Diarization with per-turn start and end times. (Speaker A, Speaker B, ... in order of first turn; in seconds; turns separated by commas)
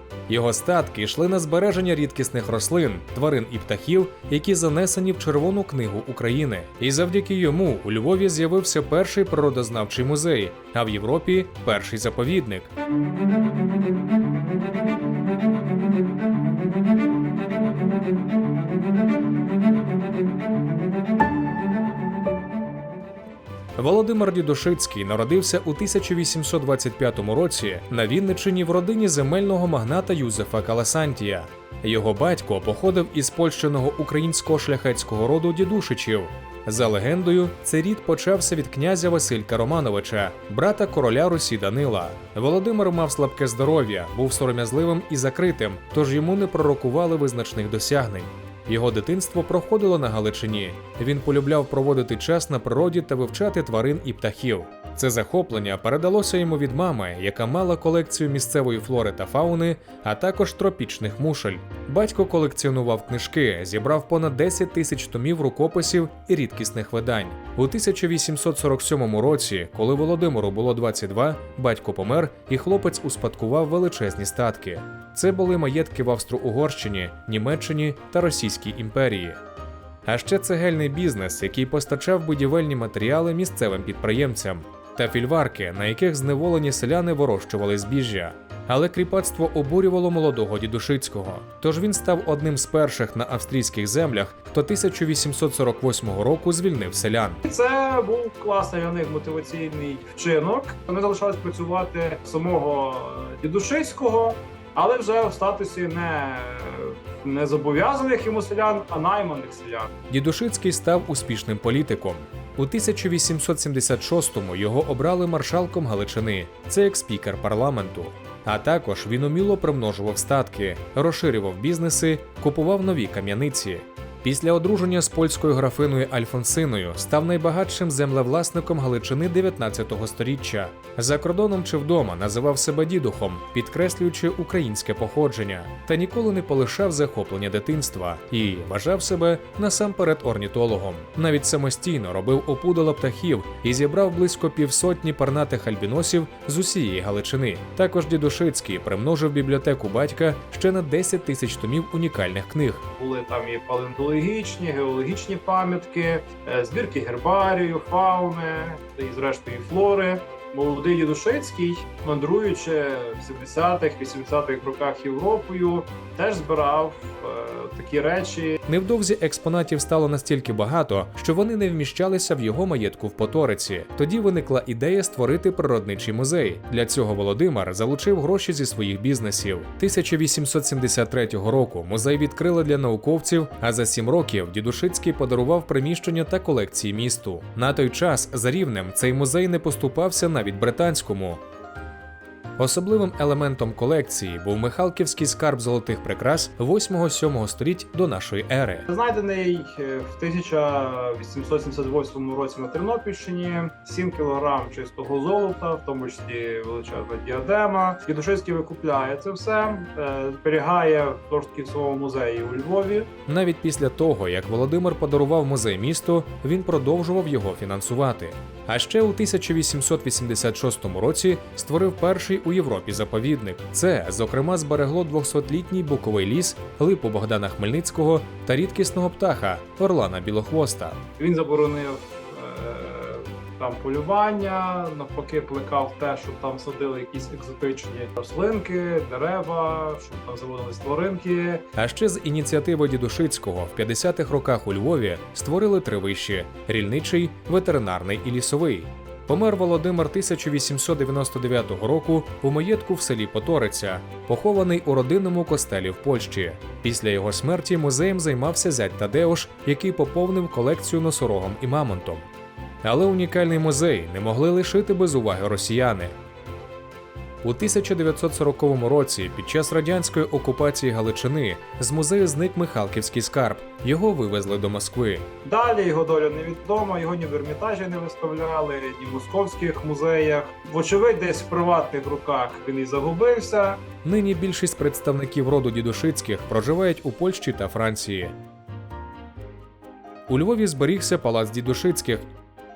Speaker A: 0.3-12.7, Speaker A: 23.8-79.4, Speaker A: 80.0-97.4, Speaker B: 97.4-110.0, Speaker A: 110.1-152.8, Speaker B: 153.0-168.6, Speaker A: 168.7-191.4, Speaker A: 192.6-198.9, Speaker B: 198.9-213.1, Speaker A: 213.3-231.0, Speaker B: 231.2-241.7, Speaker A: 241.8-262.3, Speaker A: 262.8-266.2, Speaker A: 267.4-275.3, Speaker B: 275.4-283.8, Speaker A: 284.0-288.4, Speaker A: 290.3-292.3